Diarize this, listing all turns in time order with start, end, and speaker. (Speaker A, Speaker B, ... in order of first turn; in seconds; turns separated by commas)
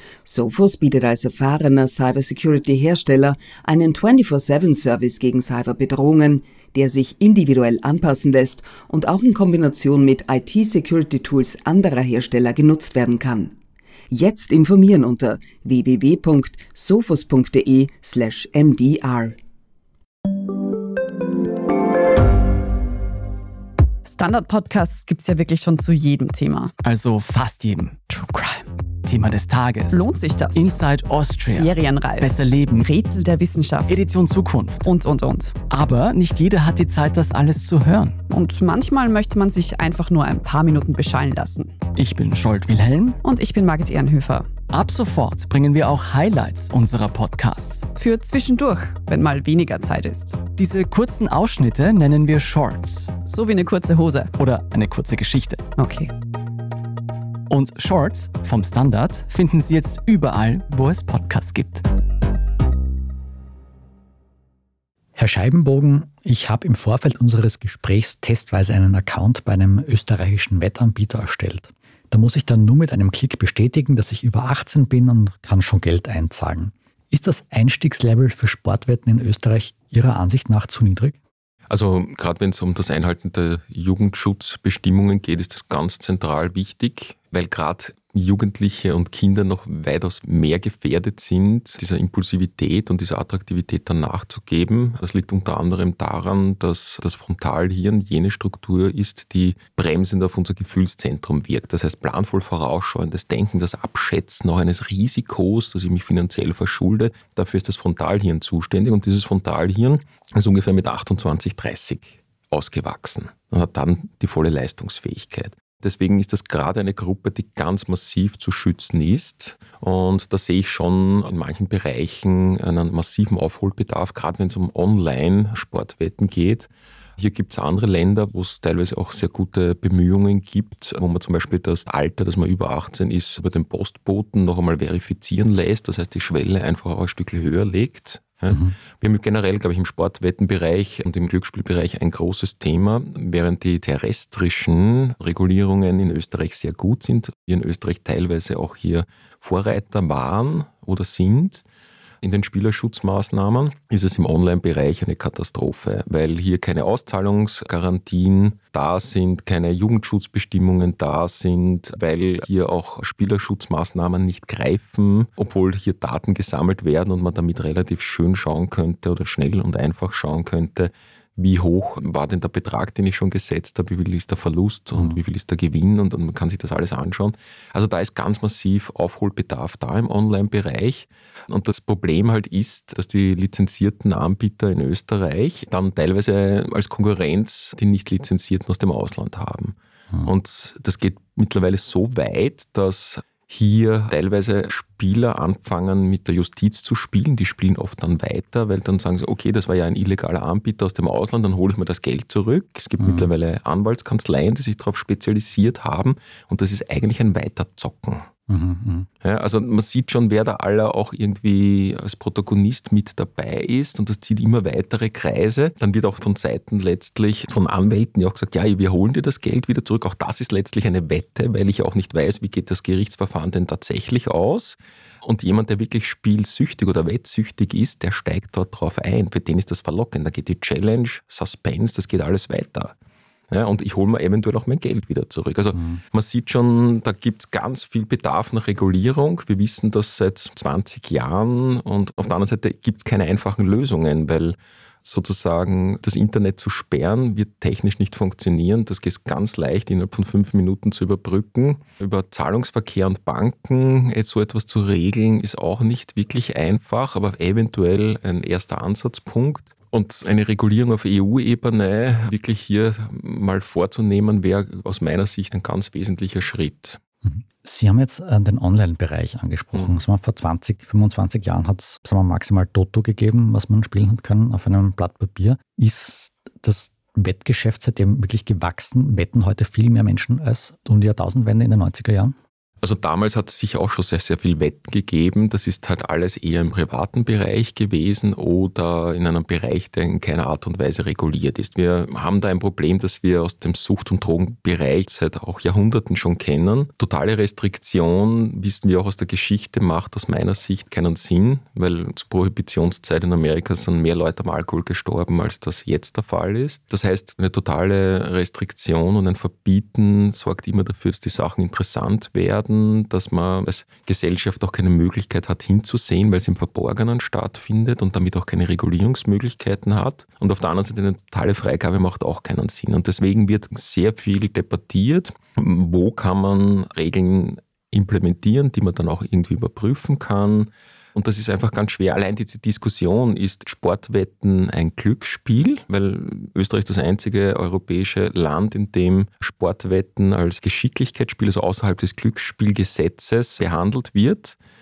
Speaker A: 0.2-13.5, Speaker A: 14.1-19.4, Speaker B: 24.0-26.7, Speaker C: 26.8-32.9, Speaker B: 29.9-30.7, Speaker B: 31.5-34.0, Speaker C: 33.9-34.9, Speaker B: 34.8-35.5, Speaker C: 35.7-38.2, Speaker B: 38.3-41.7, Speaker C: 41.9-43.2, Speaker B: 43.2-44.5, Speaker C: 44.7-47.9, Speaker B: 47.9-50.4, Speaker C: 50.5-53.2, Speaker B: 53.2-54.3, Speaker C: 54.4-55.6, Speaker B: 55.8-56.1, Speaker C: 57.5-61.8, Speaker D: 65.2-81.2, Speaker E: 81.7-151.6, Speaker E: 152.2-208.3, Speaker D: 203.0-203.3, Speaker D: 208.5-209.1, Speaker E: 209.2-232.9, Speaker E: 233.5-267.0, Speaker D: 235.7-236.0, Speaker D: 267.2-282.3, Speaker E: 269.7-270.0, Speaker E: 282.8-344.6